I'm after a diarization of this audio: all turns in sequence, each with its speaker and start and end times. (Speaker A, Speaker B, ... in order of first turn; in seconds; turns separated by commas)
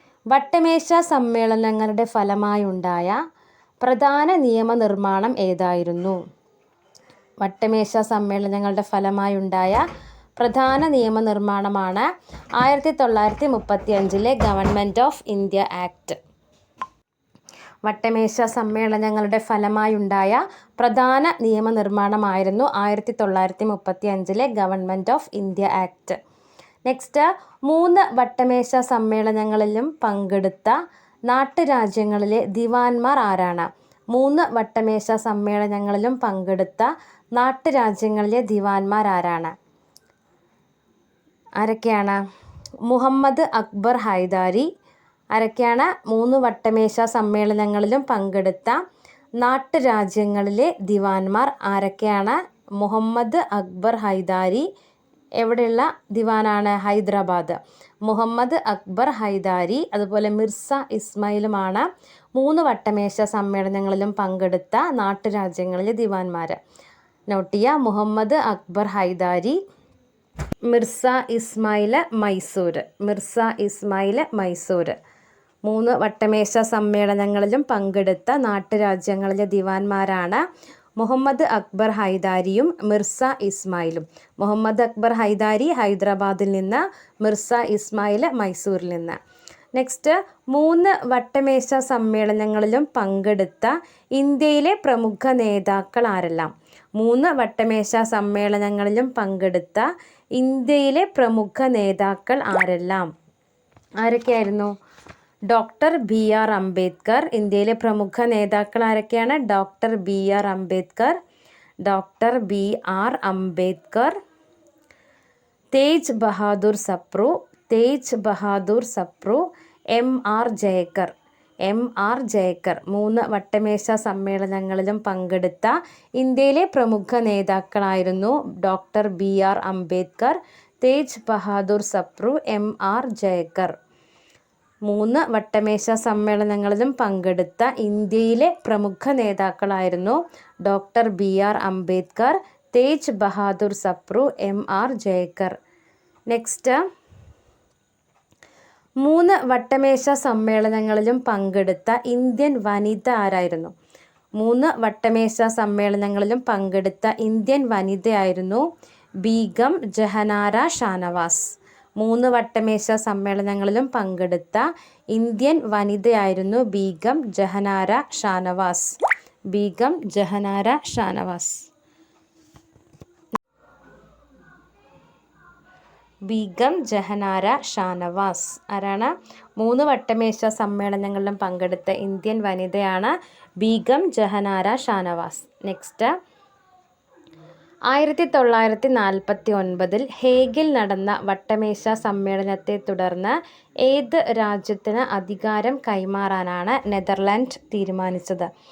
Speaker A: 0.3-3.2, Speaker A: 3.8-6.2, Speaker A: 7.4-9.8, Speaker A: 10.4-12.1, Speaker A: 12.6-16.2, Speaker A: 17.9-26.2, Speaker A: 26.9-30.8, Speaker A: 31.3-39.5, Speaker A: 41.6-42.2, Speaker A: 42.9-44.7, Speaker A: 45.3-48.8, Speaker A: 49.4-54.6, Speaker A: 55.4-66.6, Speaker A: 67.3-69.6, Speaker A: 70.7-75.0, Speaker A: 75.7-80.4, Speaker A: 81.0-89.2, Speaker A: 89.7-103.1, Speaker A: 104.0-104.7, Speaker A: 105.5-111.2, Speaker A: 111.8-114.1, Speaker A: 115.7-121.1, Speaker A: 121.7-133.7, Speaker A: 134.8-145.5, Speaker A: 146.3-146.8, Speaker A: 149.0-153.7, Speaker A: 154.4-158.6, Speaker A: 159.2-161.5, Speaker A: 162.0-169.0, Speaker A: 169.5-171.6, Speaker A: 176.3-186.1, Speaker A: 187.9-198.5